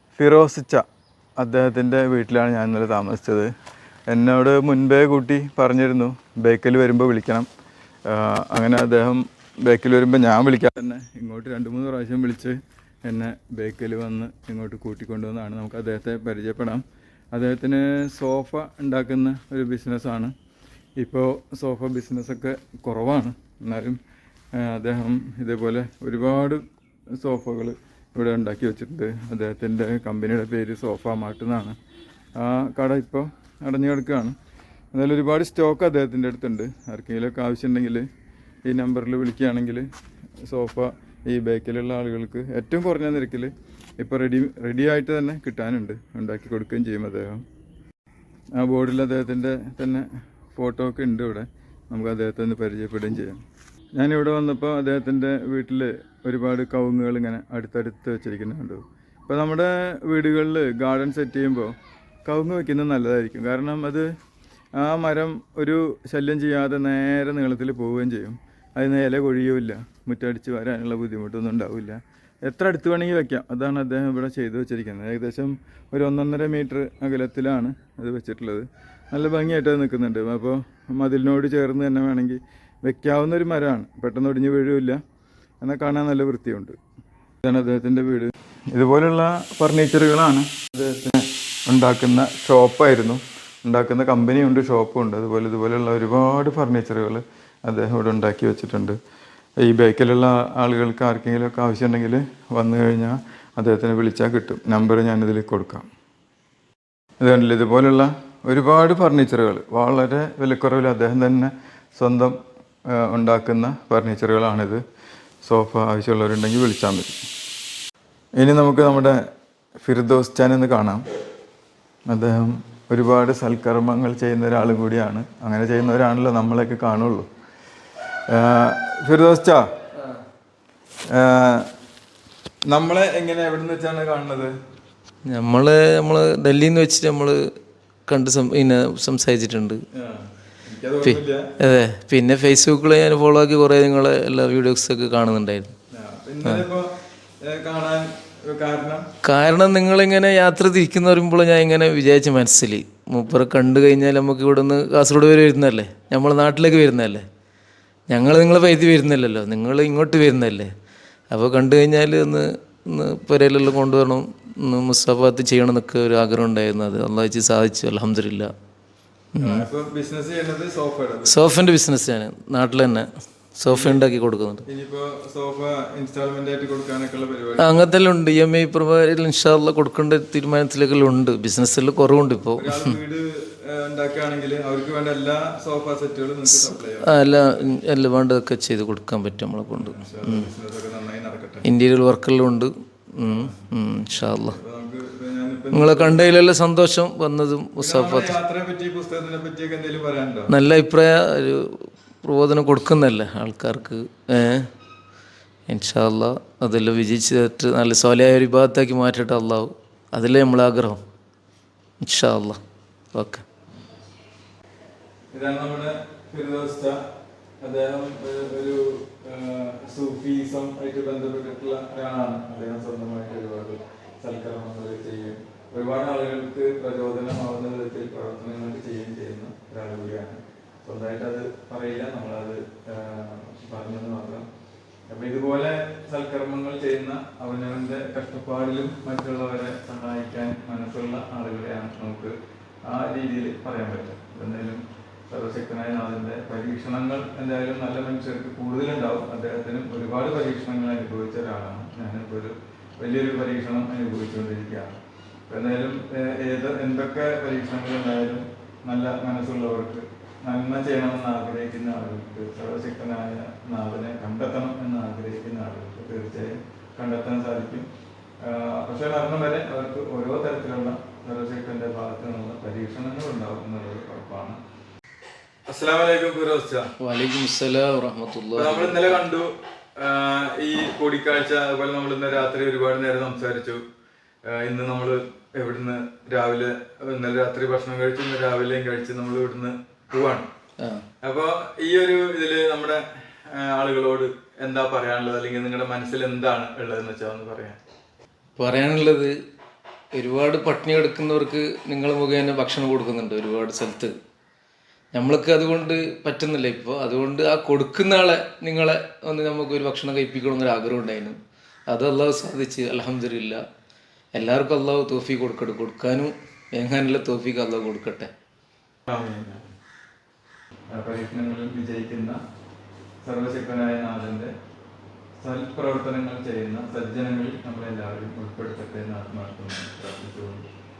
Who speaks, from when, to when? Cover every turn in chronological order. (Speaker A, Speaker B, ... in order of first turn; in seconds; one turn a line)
Speaker A: 0.2-0.8
Speaker A: 1.4-3.5
Speaker A: 4.1-7.5
Speaker A: 8.1-20.3
Speaker A: 21.0-24.0
Speaker A: 24.6-26.6
Speaker A: 27.2-31.8
Speaker A: 32.4-34.4
Speaker A: 34.9-38.1
Speaker A: 38.6-39.9
Speaker A: 40.5-47.4
Speaker A: 48.6-53.4
Speaker A: 54.0-64.1
Speaker A: 64.8-85.0
Speaker A: 85.6-86.8
Speaker A: 87.4-99.0
Speaker A: 99.6-105.9
Speaker A: 107.2-112.4
Speaker A: 112.9-114.8
Speaker A: 115.4-117.2
Speaker A: 118.4-119.2
Speaker A: 119.8-121.0
Speaker A: 122.1-127.3
Speaker A: 128.3-129.6
Speaker A: 131.1-131.7
Speaker A: 132.7-134.6
Speaker B: 135.3-137.4
Speaker B: 138.1-139.8
Speaker A: 139.9-141.6
Speaker B: 141.0-145.7
Speaker A: 145.9-149.1
Speaker B: 149.2-157.2
Speaker B: 158.1-160.7
Speaker B: 161.3-168.5
Speaker B: 169.3-169.7
Speaker A: 169.4-171.4
Speaker B: 171.2-174.7
Speaker A: 173.7-174.1
Speaker A: 174.7-177.9
Speaker B: 177.6-183.0
Speaker A: 182.6-187.7
Speaker B: 186.5-190.5
Speaker A: 189.7-191.7
Speaker B: 191.7-194.6
Speaker A: 193.2-196.4
Speaker B: 195.7-198.4
Speaker A: 197.8-200.5
Speaker B: 200.5-204.7
Speaker B: 205.7-211.0
Speaker B: 212.0-212.6
Speaker B: 213.1-213.4
Speaker A: 215.3-217.0
Speaker A: 217.6-234.5
Speaker A: 235.1-242.3
Speaker A: 242.8-267.9
Speaker A: 268.4-274.6
Speaker A: 275.7-276.9
Speaker B: 277.0-279.2
Speaker A: 278.6-283.8
Speaker A: 284.5-290.5
Speaker A: 291.2-297.8
Speaker B: 298.6-299.3
Speaker B: 300.1-304.1
Speaker B: 305.1-313.6
Speaker B: 314.4-318.3
Speaker A: 319.1-319.6
Speaker A: 320.9-322.4
Speaker A: 323.2-324.5
Speaker A: 325.4-330.7